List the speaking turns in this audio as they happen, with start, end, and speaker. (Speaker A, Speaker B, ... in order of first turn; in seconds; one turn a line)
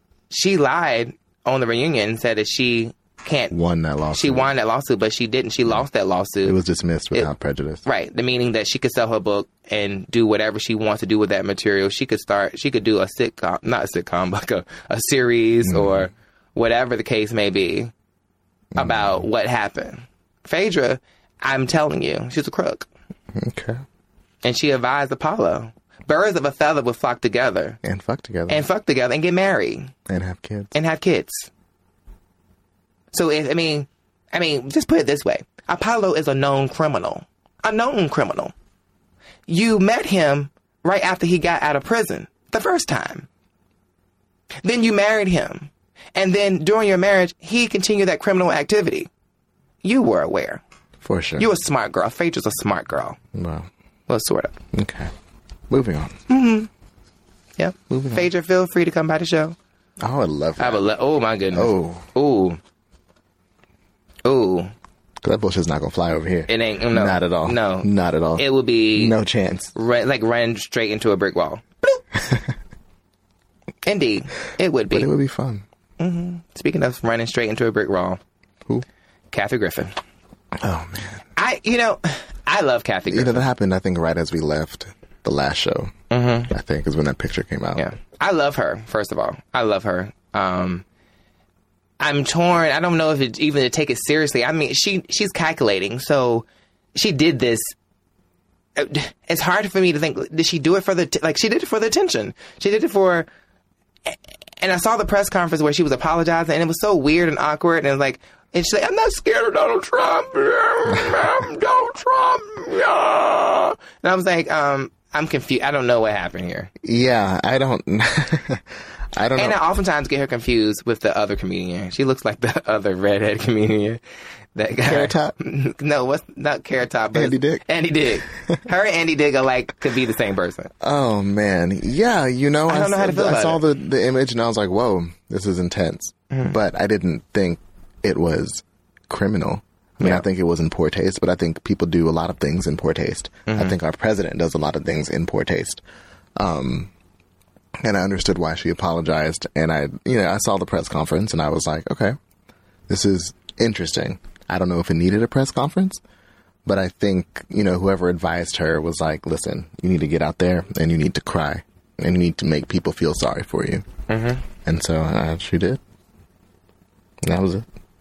Speaker A: 0.3-3.5
Speaker B: 3.5-4.5
Speaker A: 4.1-6.6
Speaker B: 6.4-7.8
Speaker A: 7.8-17.9
Speaker B: 15.6-16.1
Speaker B: 18.7-19.2
Speaker A: 18.8-22.9
Speaker B: 23.3-23.8
Speaker A: 24.4-27.8
Speaker B: 27.8-28.6
Speaker A: 28.5-29.9
Speaker B: 30.1-30.7
Speaker A: 30.7-31.5
Speaker A: 33.1-38.5
Speaker A: 39.5-43.3
Speaker A: 44.6-49.1
Speaker A: 49.8-50.6
Speaker B: 51.0-51.5
Speaker A: 51.4-53.2
Speaker B: 53.3-53.7
Speaker A: 54.1-54.6
Speaker B: 54.7-55.1
Speaker B: 55.7-56.2
Speaker A: 56.3-56.7
Speaker A: 57.6-59.5
Speaker B: 57.9-58.3
Speaker B: 60.0-60.9
Speaker A: 60.6-62.6
Speaker B: 61.5-62.1
Speaker A: 64.2-64.7
Speaker B: 65.2-69.7
Speaker A: 66.5-69.2
Speaker A: 69.7-72.0
Speaker B: 72.2-72.5
Speaker A: 73.8-75.1
Speaker B: 74.9-75.6
Speaker A: 76.0-78.2
Speaker A: 79.3-80.0
Speaker B: 80.6-81.2
Speaker A: 81.3-83.5
Speaker B: 83.1-85.9
Speaker A: 86.1-86.5
Speaker B: 86.5-87.8
Speaker A: 87.8-90.8
Speaker A: 92.0-97.7
Speaker A: 98.8-103.3
Speaker A: 104.1-116.7
Speaker B: 116.8-119.6
Speaker A: 119.3-124.0
Speaker A: 124.5-130.7
Speaker B: 124.8-125.3
Speaker B: 127.1-127.7
Speaker B: 128.3-128.6
Speaker B: 130.8-145.8
Speaker A: 132.7-133.6
Speaker A: 143.5-143.7
Speaker B: 146.3-146.9
Speaker B: 147.8-152.2
Speaker B: 152.9-156.0
Speaker B: 156.6-163.8
Speaker A: 164.1-164.4
Speaker B: 164.6-165.8
Speaker B: 167.2-167.7